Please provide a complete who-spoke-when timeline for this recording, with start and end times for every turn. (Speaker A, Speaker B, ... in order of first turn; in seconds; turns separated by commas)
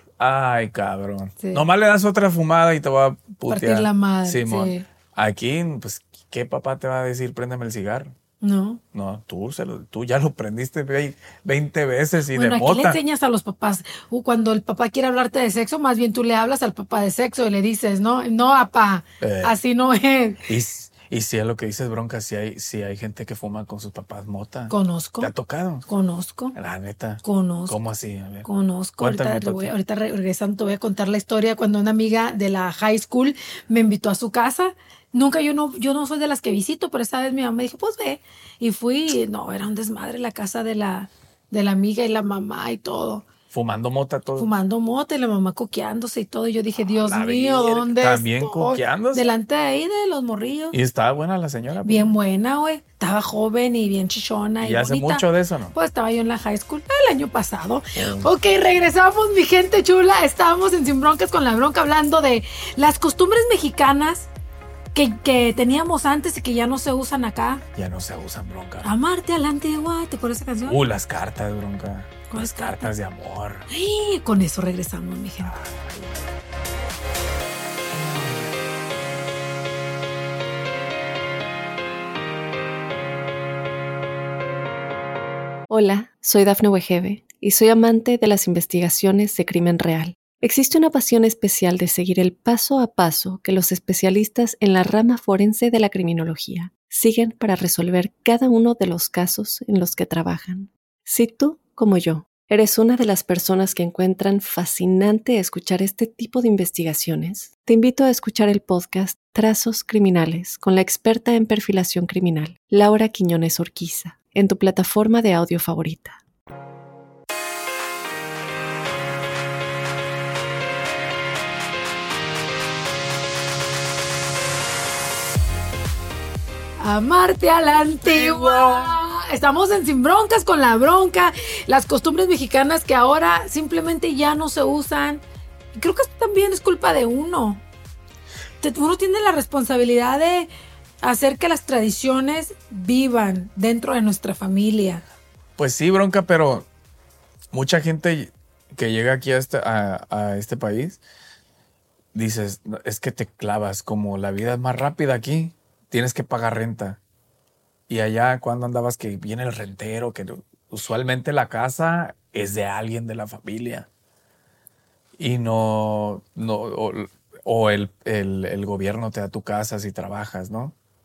Speaker A: 0.2-8.1, Speaker B: 3.5-4.8, Speaker B: 8.4-8.8, Speaker A: 8.9-13.0, Speaker B: 12.3-20.4, Speaker A: 19.2-19.6, Speaker A: 20.4-25.9, Speaker B: 24.7-25.3, Speaker B: 25.9-26.5, Speaker A: 26.5-28.5, Speaker B: 27.2-27.7, Speaker B: 28.4-43.2, Speaker A: 29.0-29.7, Speaker A: 43.5-44.5, Speaker B: 44.4-50.8, Speaker A: 47.0-49.3, Speaker A: 50.7-52.1, Speaker B: 51.8-64.3, Speaker A: 54.6-55.8, Speaker A: 58.0-58.3, Speaker B: 64.9-67.6, Speaker A: 67.7-68.9, Speaker B: 68.8-70.8, Speaker A: 70.7-73.7, Speaker B: 72.3-72.9, Speaker B: 73.7-75.5, Speaker A: 75.4-76.2, Speaker C: 85.7-116.2, Speaker B: 126.8-135.2, Speaker A: 128.1-128.9, Speaker B: 135.7-137.6, Speaker B: 138.6-140.5, Speaker B: 141.0-145.0, Speaker A: 145.6-146.7, Speaker A: 147.5-151.0, Speaker A: 152.1-157.0, Speaker A: 157.9-163.9, Speaker A: 165.2-170.8